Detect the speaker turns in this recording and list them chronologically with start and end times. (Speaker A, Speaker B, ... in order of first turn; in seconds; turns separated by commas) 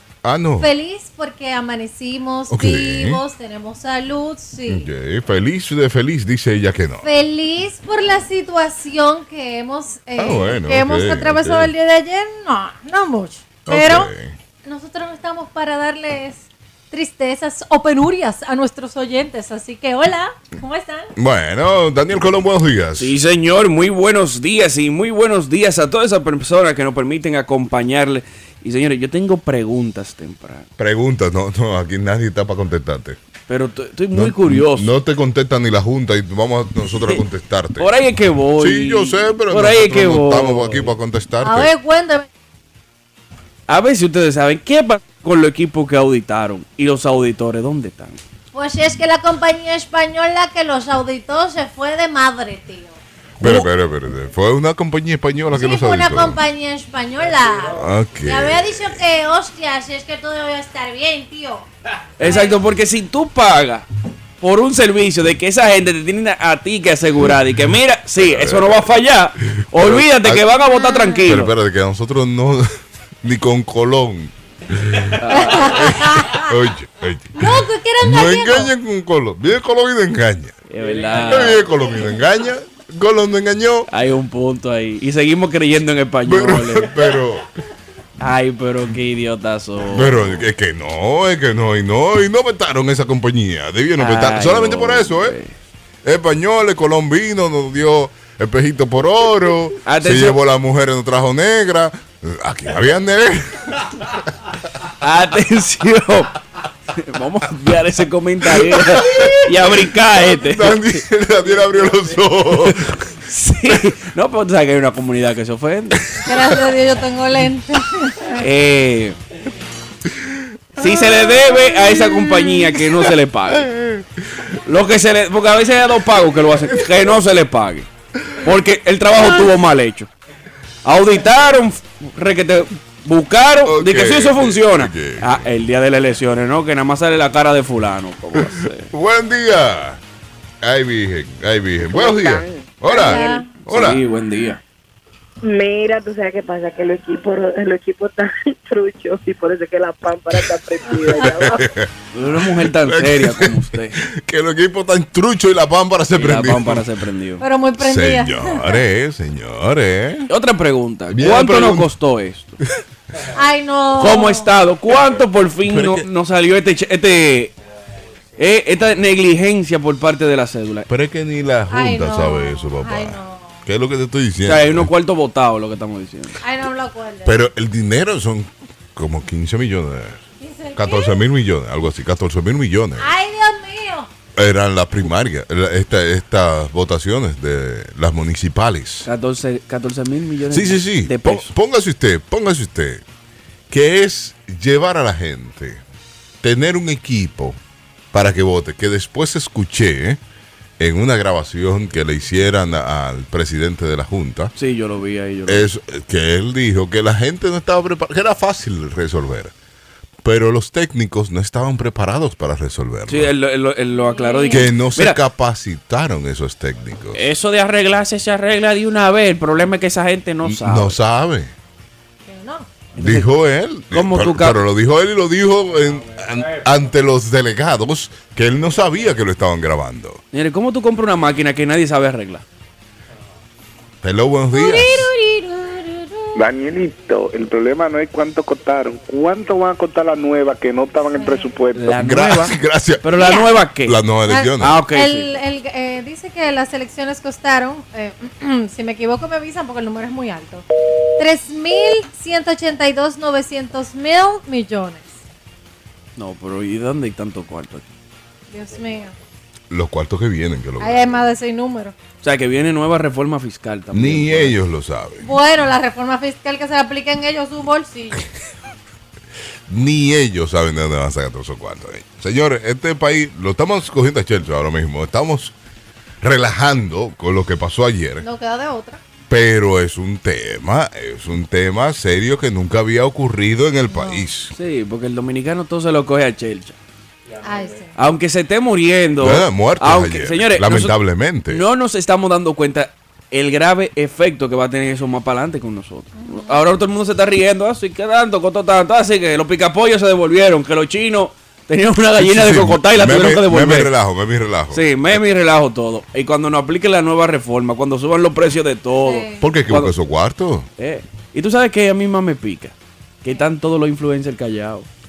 Speaker A: 0.2-0.7, Speaker B: 0.6-4.9, Speaker A: 2.5-3.2, Speaker A: 4.7-7.1, Speaker B: 7.0-14.1, Speaker A: 10.2-11.7, Speaker A: 13.7-14.4, Speaker B: 14.7-21.1, Speaker A: 21.2-23.1, Speaker C: 23.0-30.7, Speaker A: 30.8-33.2, Speaker C: 33.5-34.9, Speaker A: 34.1-37.9, Speaker C: 37.8-40.9, Speaker A: 38.6-41.7, Speaker B: 41.4-42.3, Speaker C: 43.7-48.2, Speaker B: 48.5-53.0, Speaker C: 53.4-53.7, Speaker A: 53.4-56.4, Speaker B: 55.5-61.7, Speaker A: 57.8-59.0, Speaker C: 62.2-63.9, Speaker B: 62.2-62.6, Speaker C: 64.4-71.5, Speaker A: 68.2-68.9, Speaker A: 69.7-70.5, Speaker B: 70.6-71.3, Speaker A: 71.3-72.7, Speaker A: 73.2-80.6, Speaker C: 75.2-75.9, Speaker B: 75.4-76.5, Speaker B: 77.4-78.7, Speaker C: 80.7-81.7, Speaker A: 81.2-83.9, Speaker C: 83.9-86.9, Speaker A: 86.3-87.5, Speaker C: 88.2-90.4, Speaker A: 89.9-95.3, Speaker C: 94.0-95.5, Speaker A: 96.0-103.6, Speaker C: 99.9-100.4, Speaker C: 105.0-106.3, Speaker C: 106.9-111.0, Speaker A: 108.5-112.8, Speaker C: 112.6-116.1, Speaker B: 116.2-118.4, Speaker C: 118.4-119.2, Speaker C: 120.8-123.7, Speaker B: 120.8-122.6, Speaker A: 123.6-124.0, Speaker C: 124.7-127.9, Speaker C: 128.4-130.1, Speaker B: 129.2-129.5, Speaker C: 130.8-138.9, Speaker A: 133.7-135.4, Speaker A: 138.4-140.0, Speaker A: 140.6-144.0, Speaker D: 142.0-142.6, Speaker B: 142.9-143.5, Speaker C: 143.6-144.6, Speaker D: 145.4-151.6, Speaker A: 151.2-151.9, Speaker C: 152.1-154.0, Speaker A: 152.7-156.8, Speaker C: 156.2-157.4, Speaker B: 157.4-158.8, Speaker A: 157.8-160.3, Speaker C: 160.3-162.6, Speaker A: 161.1-161.9, Speaker B: 163.3-164.5, Speaker C: 164.0-167.5, Speaker A: 165.7-166.1, Speaker C: 168.4-170.9, Speaker A: 170.9-174.9, Speaker B: 171.7-173.6, Speaker C: 174.5-176.4, Speaker B: 176.4-177.4, Speaker A: 177.2-180.2, Speaker B: 180.4-181.2, Speaker A: 180.8-183.1, Speaker B: 183.0-184.1, Speaker A: 184.4-189.1, Speaker C: 189.1-191.5, Speaker A: 190.5-193.0, Speaker A: 193.7-195.8, Speaker A: 196.4-197.6, Speaker A: 198.1-200.2, Speaker A: 200.8-204.5, Speaker C: 204.6-205.7, Speaker A: 205.5-209.5, Speaker A: 210.2-213.3, Speaker C: 213.1-215.2, Speaker B: 213.9-214.7, Speaker A: 214.5-217.2, Speaker C: 217.1-221.0, Speaker A: 220.4-221.5, Speaker B: 222.3-222.7, Speaker C: 223.0-223.3, Speaker A: 223.0-230.2, Speaker C: 223.9-224.6, Speaker C: 230.3-232.4, Speaker A: 234.0-235.1, Speaker B: 234.5-236.4, Speaker E: 236.4-241.8, Speaker B: 241.1-241.5, Speaker C: 241.7-244.0, Speaker A: 241.9-243.1, Speaker B: 243.2-243.5, Speaker A: 243.8-244.8, Speaker B: 244.3-250.6, Speaker C: 244.6-245.3, Speaker B: 251.2-255.2, Speaker C: 256.2-257.9, Speaker B: 258.5-259.1, Speaker A: 259.7-261.1, Speaker B: 260.8-261.9, Speaker C: 262.2-264.6, Speaker A: 263.9-265.2, Speaker B: 265.2-268.2, Speaker A: 269.7-275.5, Speaker A: 276.2-278.2, Speaker B: 278.2-279.0, Speaker A: 279.3-284.5, Speaker B: 283.9-284.3, Speaker C: 284.6-286.8, Speaker B: 287.4-287.9, Speaker C: 288.0-291.0, Speaker A: 289.2-291.6, Speaker C: 291.5-303.9, Speaker B: 296.2-296.6, Speaker A: 302.2-305.2, Speaker C: 304.7-309.9, Speaker B: 309.0-309.4, Speaker A: 309.4-310.7, Speaker C: 310.8-314.9